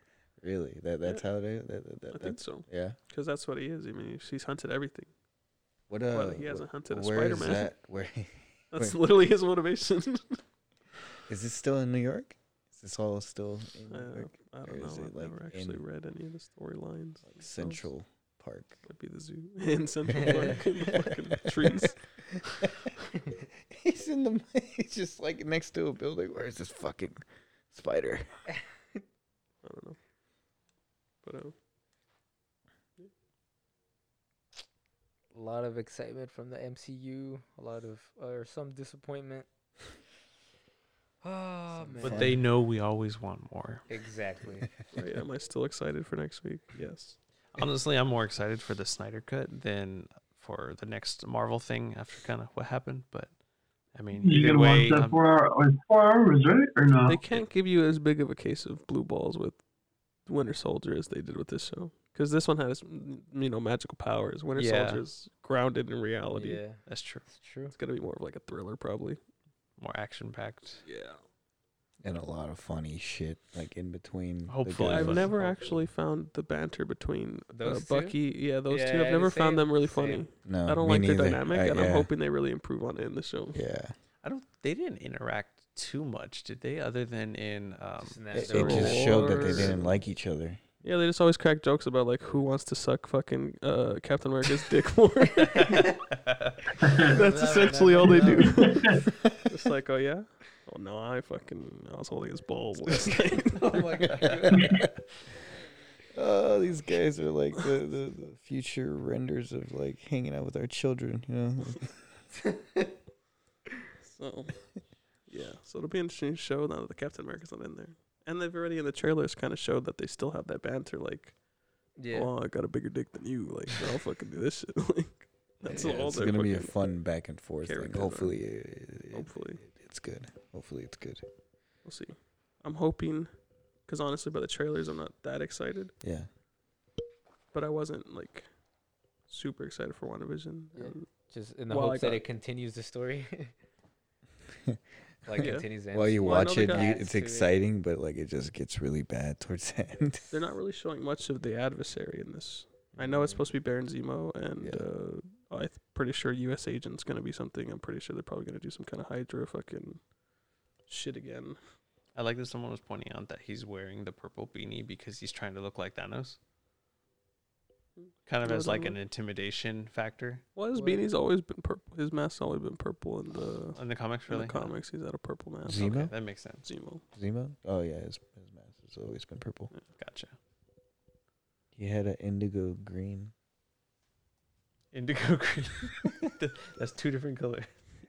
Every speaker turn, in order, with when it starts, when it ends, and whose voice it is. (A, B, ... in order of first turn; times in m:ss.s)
0:00.4-0:03.0 A
0:02.1-0:05.1 B
0:05.9-0:09.0 A
0:06.1-0:07.7 B
0:08.7-0:10.4 B
0:11.3-0:15.8 A
0:13.9-0:17.9 B
0:17.3-0:18.8 A
0:18.9-0:22.1 B
0:20.2-0:21.9 A
0:22.6-0:22.9 A
0:23.7-0:28.3 A
0:29.6-0:30.0 B
0:31.2-0:31.6 B
0:35.3-0:39.5 C
0:41.2-0:42.4 C
0:42.0-0:42.4 A
0:42.0-0:43.8 D
0:43.9-0:44.7 C
0:44.9-0:47.2 B
0:47.5-0:53.3 D
0:54.0-0:55.2 D
0:54.2-0:57.2 E
0:57.1-0:59.6 B
1:00.2-1:06.6 B
1:04.6-1:05.0 D
1:06.3-1:07.7 C
1:06.9-1:07.3 D
1:07.7-1:09.2 B
1:09.8-1:10.8 D
1:10.8-1:11.2 B
1:12.0-1:15.3 A
1:14.5-1:15.5 D
1:14.8-1:23.6 B
1:17.5-1:20.2 C
1:20.4-1:22.1 A
1:23.5-1:23.9 A
1:24.2-1:28.9 D
1:28.0-1:29.8 C
1:28.3-1:30.6 A
1:28.4-1:29.9 B
1:30.8-1:35.9 B
1:35.6-1:35.8 C
1:35.6-1:36.6 D
1:36.8-1:37.2 E
1:37.1-1:38.8 C
1:37.1-1:44.0 B
1:38.6-1:39.0 E
1:43.5-1:44.7 C
1:44.0-1:44.9 A
1:46.1-1:51.9 A
1:54.0-1:54.6 B
1:55.3-2:01.4 B
2:02.0-2:02.3 C
2:02.1-2:06.8 B
2:05.6-2:11.2 A
2:07.6-2:08.4 B
2:09.1-2:09.6 B
2:11.8-2:15.9 B
2:16.0-2:16.3 A
2:17.5-2:18.5 B
2:19.3-2:21.1 B
2:20.8-2:23.5 C
2:21.7-2:22.2 B
2:25.3-2:27.5 C
2:25.3-2:30.3 A
2:25.4-2:25.7 B
2:26.2-2:27.0 B
2:30.3-2:40.0 B
2:33.0-2:33.5 C
2:40.9-2:41.6 B
2:42.2-2:46.4 D
2:48.0-2:49.0 B
2:48.3-2:50.4 D
2:50.6-2:55.9 B
2:53.8-2:54.7 D
2:55.7-2:56.1 A
2:55.7-2:56.7 D
2:56.6-2:57.0 B
2:57.2-2:59.7 A
3:00.0-3:00.3 D
3:01.8-3:03.3 A
3:04.9-3:07.7 D